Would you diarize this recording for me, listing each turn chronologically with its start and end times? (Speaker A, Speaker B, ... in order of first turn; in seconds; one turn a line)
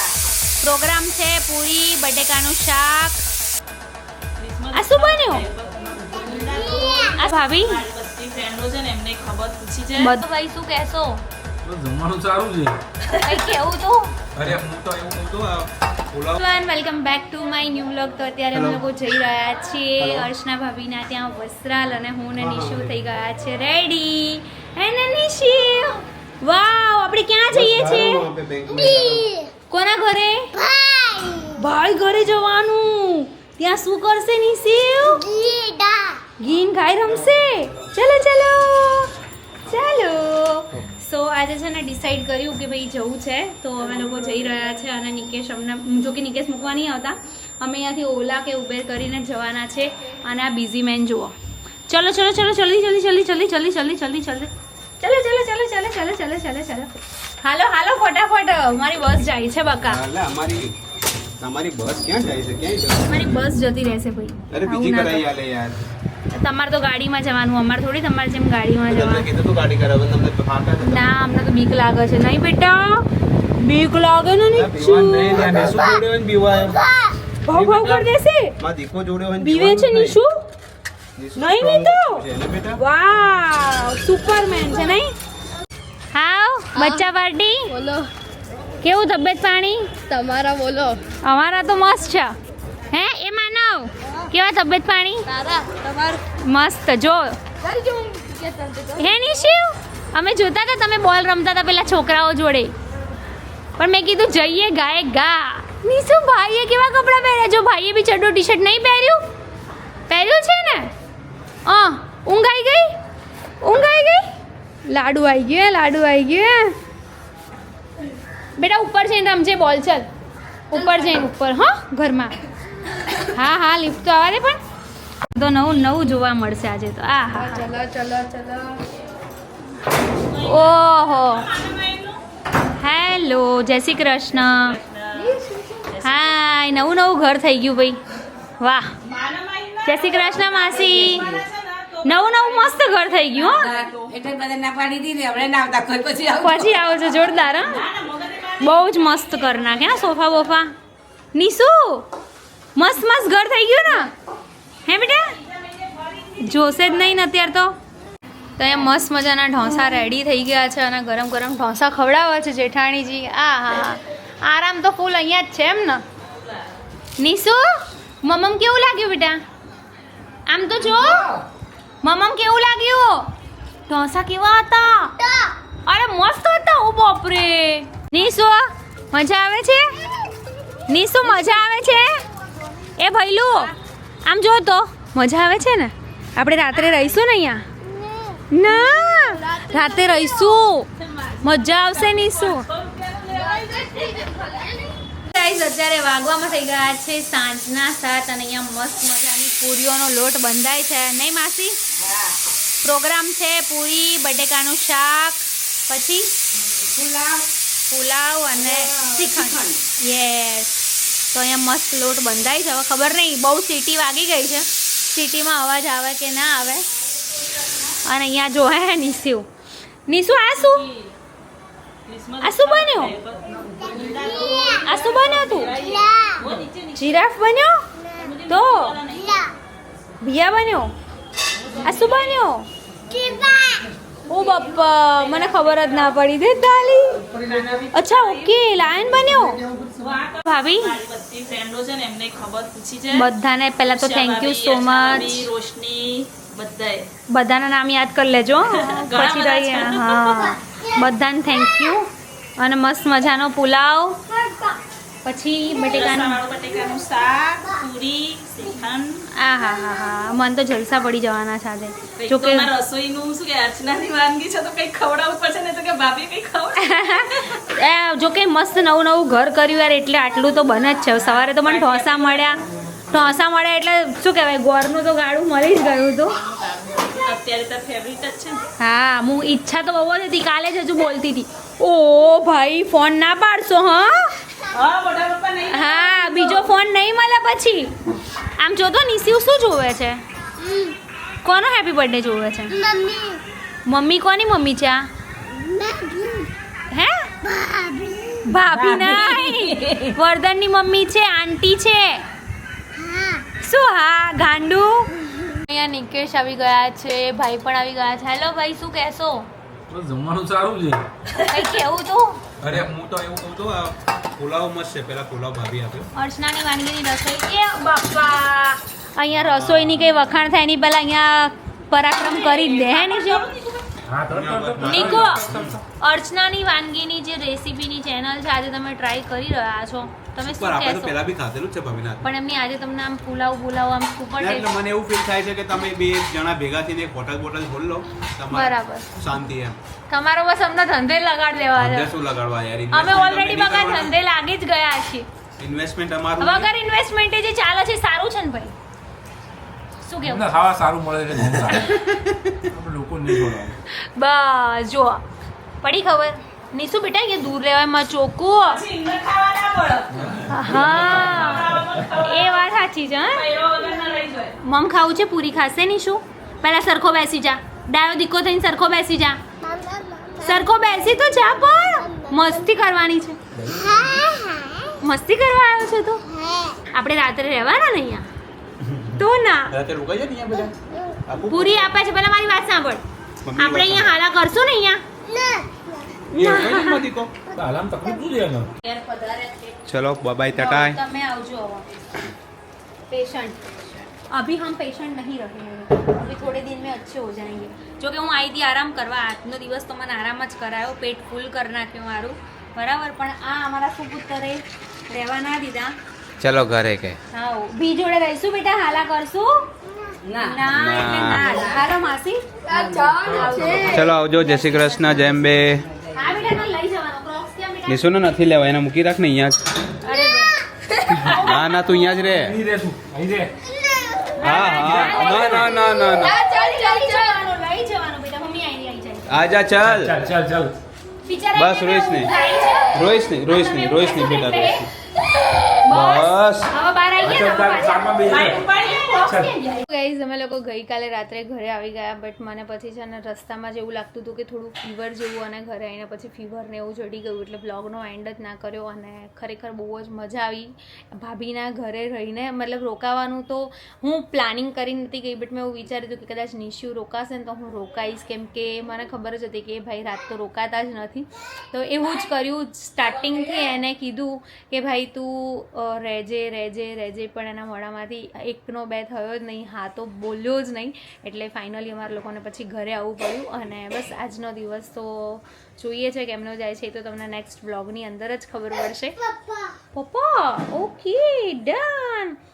Speaker A: 0.6-3.2
Speaker B: 4.4-10.2
Speaker A: 4.7-5.5
Speaker A: 7.1-7.8
Speaker A: 10.0-11.2
Speaker C: 11.7-12.8
Speaker A: 13.2-14.1
Speaker D: 14.4-16.4
Speaker A: 16.4-28.3
Speaker D: 18.5-18.8
Speaker D: 20.0-20.3
Speaker D: 22.4-22.9
Speaker D: 27.5-29.3
Speaker E: 29.2-29.5
Speaker A: 29.7-30.6
Speaker E: 30.7-31.4
Speaker A: 31.5-35.3
Speaker E: 35.3-36.2
Speaker A: 36.4-39.1
Speaker D: 37.2-37.9
Speaker A: 39.7-51.3
Speaker A: 51.9-56.9
Speaker A: 57.4-60.0
Speaker D: 59.8-60.7
Speaker D: 61.4-63.5
Speaker A: 63.1-65.2
Speaker D: 64.5-65.9
Speaker A: 66.3-69.3
Speaker D: 68.9-71.1
Speaker A: 70.8-73.1
Speaker A: 73.6-75.6
Speaker D: 74.5-76.8
Speaker A: 77.4-78.5
Speaker D: 77.5-78.0
Speaker D: 78.6-80.2
Speaker A: 79.4-80.4
Speaker D: 81.2-82.8
Speaker A: 81.3-82.2
Speaker A: 82.8-85.1
Speaker A: 86.1-87.8
Speaker E: 86.8-87.0
Speaker E: 87.7-88.1
Speaker A: 88.8-90.0
Speaker E: 90.1-91.0
Speaker A: 91.2-92.3
Speaker A: 92.9-95.3
Speaker E: 95.3-96.2
Speaker A: 96.3-97.4
Speaker E: 97.6-99.1
Speaker A: 99.0-102.7
Speaker A: 103.8-109.2
Speaker A: 110.1-110.9
Speaker A: 111.7-113.0
Speaker A: 113.6-114.3
Speaker A: 114.9-116.8
Speaker A: 118.6-120.1
Speaker A: 120.7-122.4
Speaker A: 123.2-124.6
Speaker A: 125.3-127.7
Speaker E: 127.4-128.8
Speaker B: 130.2-132.2
Speaker A: 130.3-131.5
Speaker A: 132.7-134.8
Speaker B: 134.6-136.3
Speaker E: 135.3-135.8
Speaker A: 136.0-138.0
Speaker A: 138.6-138.9
Speaker B: 139.0-144.1
Speaker A: 139.8-141.3
Speaker A: 142.0-143.9
Speaker E: 144.2-146.3
Speaker F: 144.3-146.5
Speaker A: 146.4-147.8
Speaker B: 147.6-150.3
Speaker A: 148.6-150.7
Speaker A: 151.3-152.1
Speaker A: 152.8-154.1
Speaker A: 154.8-155.4
Speaker B: 155.4-157.1
Speaker A: 156.4-157.8
Speaker A: 158.6-166.0
Speaker A: 167.2-169.4
Speaker A: 170.5-171.4
Speaker A: 172.0-173.3
Speaker A: 173.9-175.2
Speaker A: 175.9-179.9
Speaker A: 180.9-182.2
Speaker A: 183.0-183.7
Speaker A: 184.2-187.7
Speaker A: 188.5-190.9
Speaker B: 191.0-194.6
Speaker A: 191.4-192.7
Speaker E: 193.6-194.9
Speaker A: 195.2-201.8
Speaker A: 202.8-206.3
Speaker A: 207.9-216.9
Speaker A: 218.1-219.5
Speaker A: 220.1-220.8
Speaker B: 220.6-221.1
Speaker B: 222.1-227.2
Speaker A: 222.4-223.2
Speaker A: 224.8-225.7
Speaker A: 227.0-227.8
Speaker B: 228.1-229.5
Speaker A: 228.5-229.0
Speaker A: 230.2-230.9
Speaker B: 231.6-232.4
Speaker A: 231.8-232.7
Speaker E: 233.1-233.9
Speaker A: 234.3-237.4
Speaker B: 234.3-236.2
Speaker B: 237.3-238.6
Speaker A: 237.9-239.6
Speaker B: 239.9-243.3
Speaker A: 240.4-241.0
Speaker A: 243.1-245.5
Speaker B: 243.9-247.1
Speaker A: 247.3-254.7
Speaker B: 248.7-250.6
Speaker A: 255.2-256.4
Speaker B: 255.9-259.2
Speaker A: 259.4-262.7
Speaker B: 262.2-267.6
Speaker A: 266.8-272.6
Speaker B: 271.2-272.5
Speaker A: 273.1-276.4
Speaker B: 276.3-278.6
Speaker A: 278.8-284.4
Speaker B: 284.7-286.7
Speaker A: 285.7-287.9
Speaker A: 288.6-290.2
Speaker A: 291.4-292.9
Speaker E: 292.9-293.4
Speaker A: 293.9-295.1
Speaker E: 295.6-296.5
Speaker A: 296.9-297.3
Speaker E: 297.6-298.4
Speaker A: 298.4-302.2
Speaker E: 303.0-303.4
Speaker A: 303.6-309.5
Speaker C: 309.9-311.1
Speaker A: 311.5-312.4
Speaker D: 312.6-316.1
Speaker A: 316.2-323.5
Speaker D: 319.3-320.2
Speaker B: 322.2-323.9
Speaker C: 324.1-325.8
Speaker D: 324.3-325.8
Speaker A: 324.8-325.5
Speaker A: 326.0-331.2
Speaker D: 330.4-332.3
Speaker A: 332.2-334.7
Speaker D: 334.4-339.8
Speaker A: 338.5-339.1
Speaker A: 340.1-342.1
Speaker D: 341.8-344.1
Speaker A: 342.9-345.2
Speaker D: 345.6-346.7
Speaker A: 346.4-348.8
Speaker A: 350.0-350.5
Speaker C: 350.2-352.1
Speaker C: 352.6-353.8
Speaker A: 353.9-355.2
Speaker A: 355.8-358.8
Speaker B: 358.7-360.1
Speaker C: 360.1-361.9
Speaker A: 360.5-363.4
Speaker B: 360.8-362.7
Speaker B: 363.3-364.6
Speaker A: 364.6-369.4
Speaker E: 369.9-370.3
Speaker A: 370.4-373.4
Speaker C: 373.7-374.0
Speaker E: 374.3-374.6
Speaker A: 375.0-376.2
Speaker A: 376.9-378.3
Speaker D: 378.8-381.9
Speaker A: 379.2-379.8
Speaker A: 381.5-383.0
Speaker D: 383.4-384.2
Speaker A: 383.6-385.0
Speaker E: 385.4-385.7
Speaker D: 386.3-387.4
Speaker A: 386.3-387.1
Speaker C: 387.5-388.7
Speaker A: 388.9-389.5
Speaker D: 389.9-391.0
Speaker A: 390.5-391.9
Speaker A: 393.1-406.0
Speaker D: 406.4-407.2
Speaker A: 407.3-409.7
Speaker A: 410.3-415.2
Speaker D: 410.6-411.6
Speaker E: 412.7-414.0
Speaker C: 413.2-413.9
Speaker D: 413.8-415.9
Speaker A: 416.1-418.2
Speaker D: 417.9-419.8
Speaker A: 420.0-422.2
Speaker D: 421.1-422.6
Speaker C: 422.3-423.5
Speaker E: 423.8-424.3
Speaker A: 424.4-429.5
Speaker D: 424.4-426.4
Speaker C: 424.7-425.7
Speaker E: 426.5-426.8
Speaker D: 429.3-430.2
Speaker C: 429.8-430.8
Speaker A: 431.2-434.9
Speaker D: 431.6-432.3
Speaker D: 432.9-434.9
Speaker A: 435.8-479.2
Speaker D: 435.9-436.8
Speaker C: 437.2-439.5
Speaker B: 438.3-439.2
Speaker E: 479.4-479.7
Speaker A: 479.9-482.4